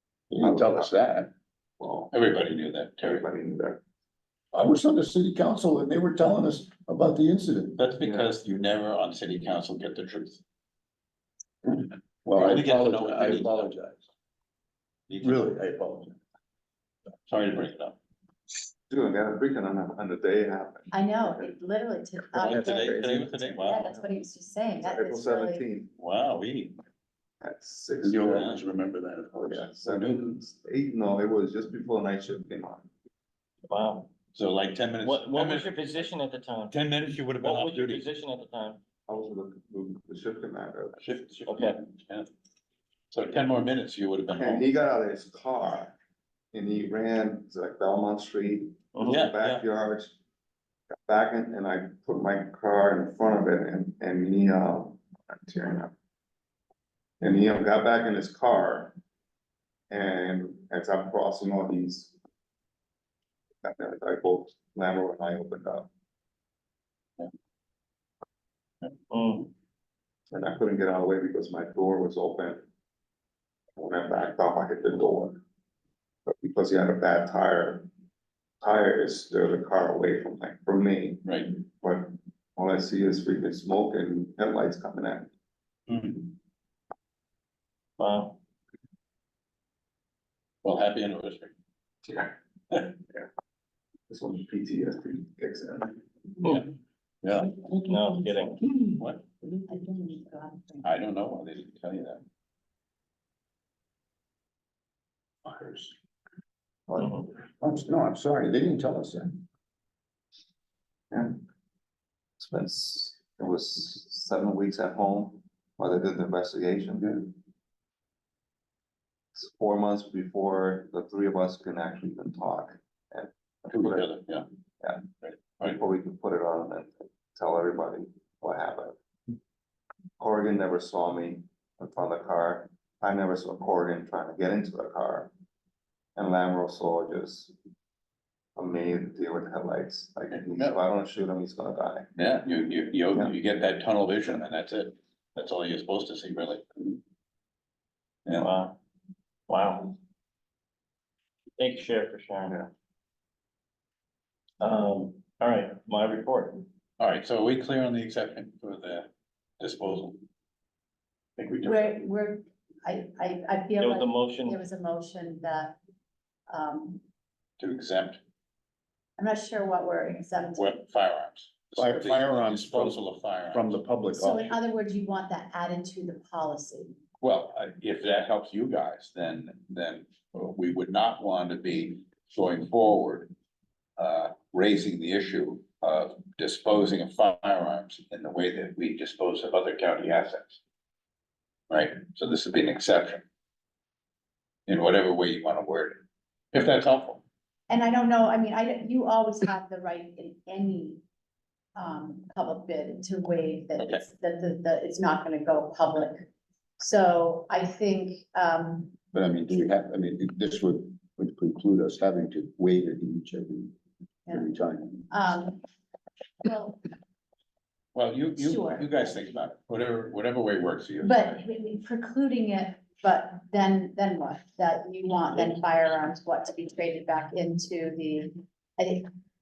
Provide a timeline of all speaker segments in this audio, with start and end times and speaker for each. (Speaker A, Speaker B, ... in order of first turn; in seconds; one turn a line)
Speaker A: 0.3-1.3
Speaker B: 0.4-0.9
Speaker B: 1.8-2.1
Speaker C: 2.1-3.3
Speaker B: 3.0-3.8
Speaker A: 4.5-7.8
Speaker C: 7.8-10.4
Speaker B: 8.0-8.3
Speaker A: 12.2-14.0
Speaker C: 12.3-13.7
Speaker C: 15.1-15.4
Speaker A: 15.2-16.2
Speaker C: 17.3-18.0
Speaker B: 18.9-21.5
Speaker D: 20.9-25.6
Speaker C: 22.4-23.9
Speaker A: 22.4-23.1
Speaker B: 24.8-25.9
Speaker C: 26.0-26.8
Speaker B: 27.4-28.6
Speaker A: 28.0-30.2
Speaker C: 28.3-28.6
Speaker B: 29.4-32.9
Speaker E: 33.7-34.1
Speaker C: 34.3-36.1
Speaker E: 35.0-36.8
Speaker C: 36.7-38.1
Speaker E: 37.4-38.8
Speaker B: 39.1-41.0
Speaker C: 41.0-42.3
Speaker E: 41.5-41.8
Speaker C: 43.1-44.7
Speaker B: 44.3-46.0
Speaker B: 46.5-50.2
Speaker C: 49.1-49.6
Speaker B: 51.1-55.9
Speaker B: 57.2-59.0
Speaker B: 59.9-62.1
Speaker B: 63.6-65.9
Speaker E: 69.1-69.5
Speaker B: 70.3-72.6
Speaker B: 73.8-75.4
Speaker B: 76.3-77.9
Speaker B: 78.6-85.3
Speaker C: 81.2-81.5
Speaker C: 85.9-86.3
Speaker E: 88.0-88.4
Speaker C: 90.6-91.5
Speaker B: 92.0-92.3
Speaker B: 94.1-96.0
Speaker C: 97.2-97.6
Speaker E: 97.8-98.6
Speaker C: 98.9-99.2
Speaker D: 99.7-100.9
Speaker C: 100.8-102.2
Speaker A: 105.5-105.9
Speaker A: 107.6-109.4
Speaker B: 111.1-111.4
Speaker B: 112.4-117.2
Speaker B: 119.3-124.1
Speaker C: 123.7-124.5
Speaker C: 125.2-125.8
Speaker B: 125.6-129.0
Speaker B: 130.2-135.3
Speaker B: 136.2-137.5
Speaker B: 138.6-142.1
Speaker C: 140.3-140.8
Speaker C: 142.2-146.9
Speaker E: 148.4-148.8
Speaker E: 149.5-150.0
Speaker E: 151.6-152.7
Speaker E: 154.6-156.7
Speaker C: 157.0-159.1
Speaker C: 159.6-160.2
Speaker C: 161.4-162.0
Speaker D: 161.6-165.8
Speaker E: 164.0-164.6
Speaker D: 166.5-167.0
Speaker C: 167.6-168.2
Speaker D: 169.2-170.8
Speaker C: 170.5-173.8
Speaker A: 171.8-174.6
Speaker D: 174.1-177.0
Speaker C: 177.2-183.3
Speaker C: 184.0-190.6
Speaker C: 191.7-193.2
Speaker C: 194.7-196.0
Speaker C: 196.5-197.2
Speaker D: 197.7-201.0
Speaker D: 201.8-208.9
Speaker A: 209.1-213.7
Speaker A: 214.3-215.1
Speaker D: 215.1-215.6
Speaker D: 216.4-216.8
Speaker C: 217.9-221.4
Speaker D: 218.4-218.9
Speaker D: 221.0-229.1